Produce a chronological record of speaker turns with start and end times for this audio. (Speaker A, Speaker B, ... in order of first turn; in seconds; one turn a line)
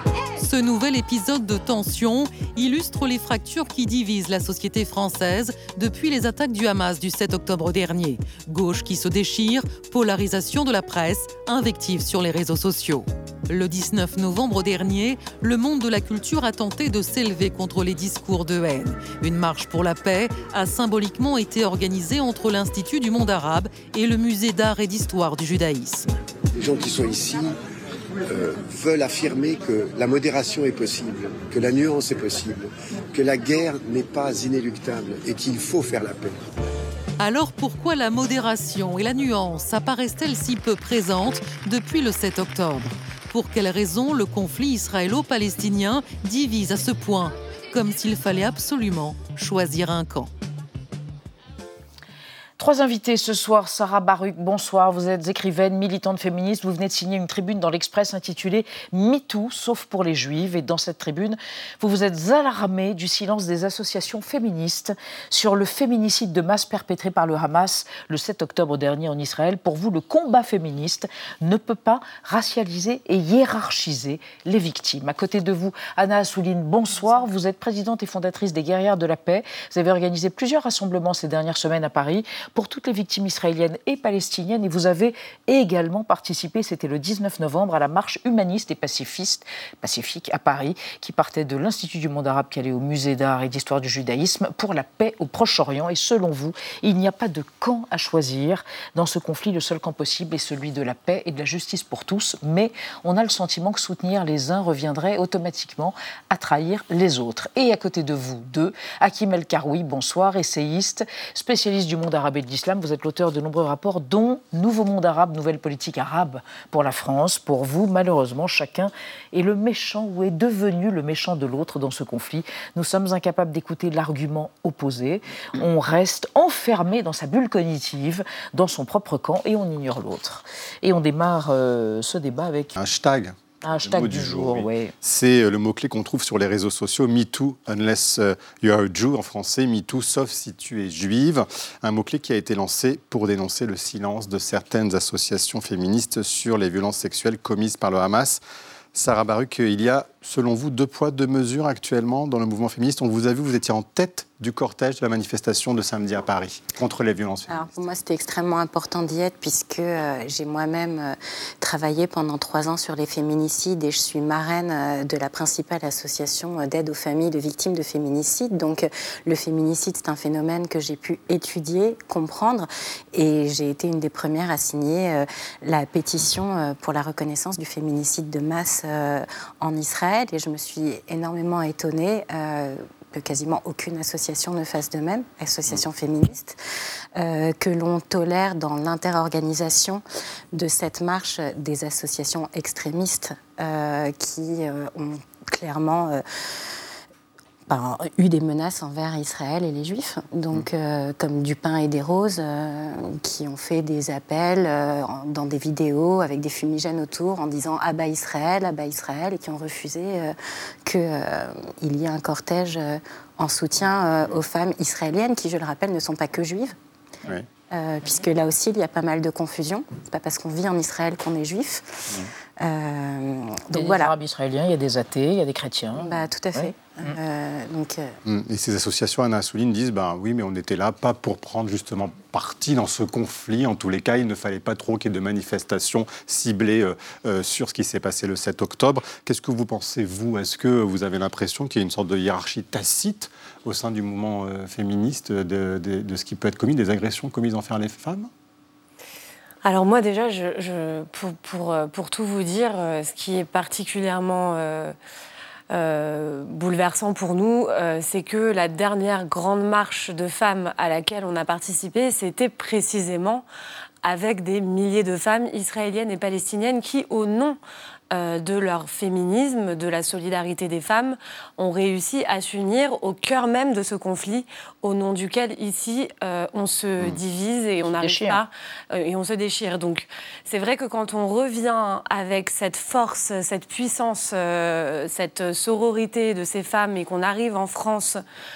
Speaker A: 0.4-26.1
Speaker B: 26.6-27.6
Speaker B: 28.3-32.6
Speaker B: 33.1-36.4
Speaker A: 37.2-50.3
Speaker C: 52.6-132.8
Speaker D: 132.8-148.4
Speaker C: 133.6-134.9
Speaker D: 148.9-157.6
Speaker E: 157.5-186.6
Speaker E: 187.2-196.2
Speaker E: 197.7-216.8
Speaker E: 217.7-222.1
Speaker E: 222.6-224.1
Speaker C: 223.7-226.7
Speaker E: 226.0-228.2
Speaker D: 228.2-248.3
Speaker F: 249.6-254.9
Speaker F: 255.7-263.5
Speaker F: 264.0-267.6
Speaker F: 268.1-288.2
Speaker C: 278.0-278.4